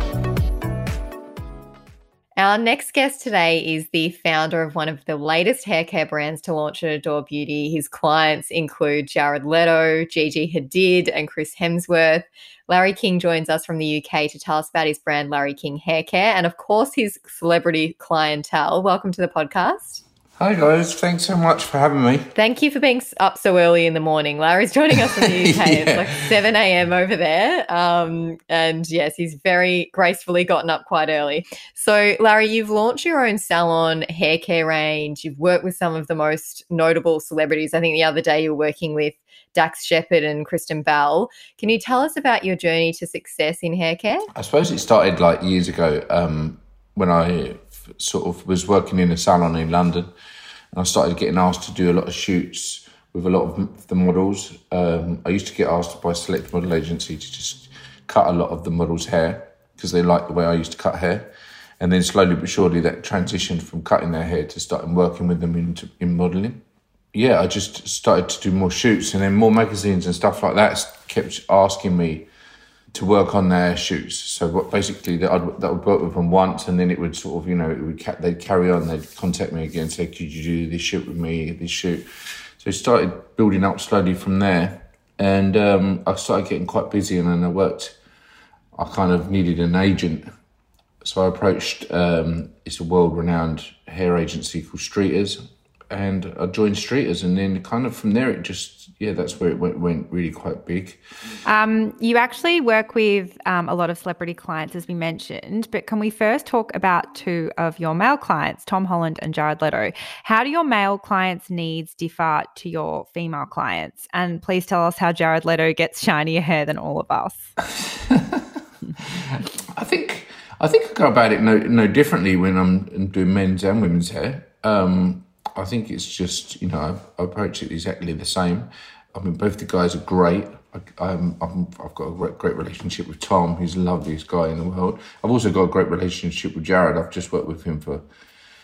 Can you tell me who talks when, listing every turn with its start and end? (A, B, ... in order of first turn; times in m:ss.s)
0:02.4-0:20.0 A
0:20.4-0:22.3 B
0:22.4-0:44.3 A
0:25.3-0:26.1 B
0:44.4-0:50.1 B
0:50.7-1:06.6 B
1:07.1-1:12.3 B
1:12.9-1:22.0 B
1:22.6-1:28.0 B
1:28.8-1:30.3 B
1:31.0-1:41.0 B
1:41.4-1:57.5 C
1:57.8-1:58.6 B
1:59.2-2:18.0 B